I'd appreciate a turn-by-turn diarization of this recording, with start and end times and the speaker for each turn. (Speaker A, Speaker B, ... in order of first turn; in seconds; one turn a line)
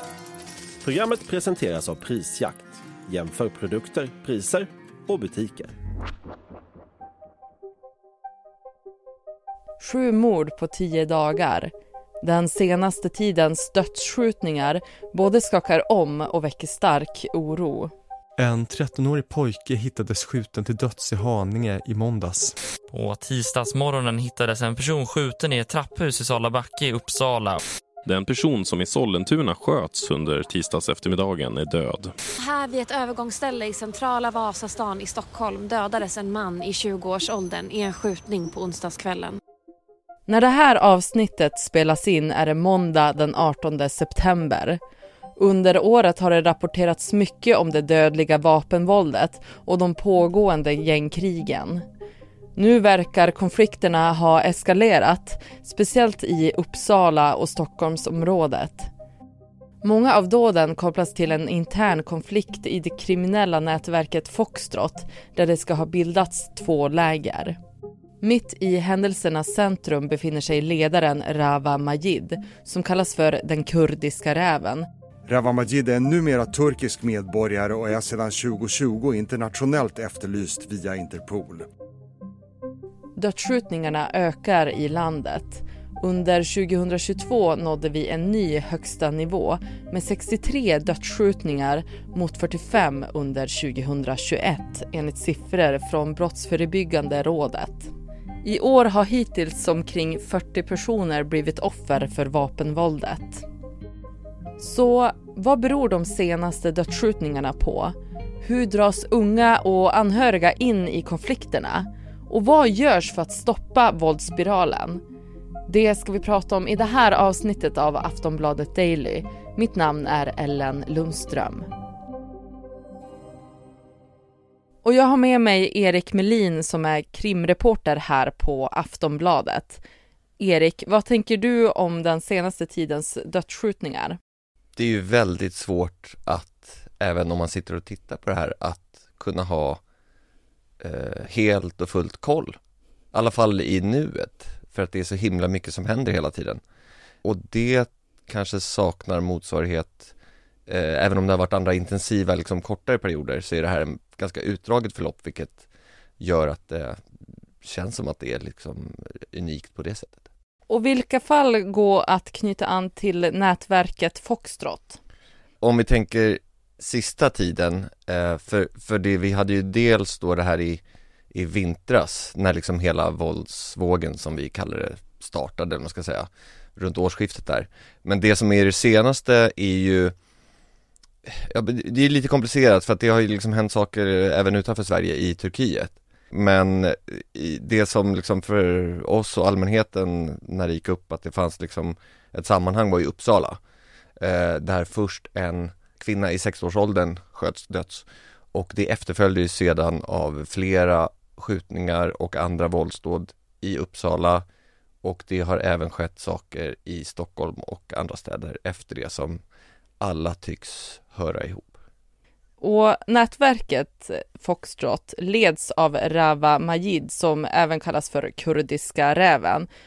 Speaker A: 0.8-5.7
Speaker B: 9.8-11.7
Speaker B: 12.2-17.9
Speaker C: 18.4-22.5
Speaker D: 22.9-27.6
Speaker E: 28.1-32.1
Speaker F: 32.4-39.4
Speaker B: 40.3-44.8
Speaker B: 45.4-51.8
Speaker B: 52.5-58.9
Speaker B: 59.8-67.6
Speaker B: 68.2-74.8
Speaker G: 75.2-81.7
Speaker B: 83.2-97.9
Speaker B: 98.4-103.4
Speaker B: 104.6-115.0
Speaker B: 115.7-121.7
Speaker B: 124.8-129.8
Speaker B: 130.4-134.2
Speaker H: 134.8-139.8
Speaker H: 140.8-142.6
Speaker H: 143.1-146.6
Speaker H: 147.2-150.1
Speaker H: 150.7-155.6
Speaker H: 156.2-157.0
Speaker H: 157.6-160.2
Speaker B: 160.7-165.0
Speaker H: 165.6-170.8
Speaker H: 171.3-180.1
Speaker H: 181.3-193.6
Speaker H: 194.2-204.4
Speaker H: 205.0-209.4
Speaker H: 210.0-211.7
Speaker B: 212.6-219.7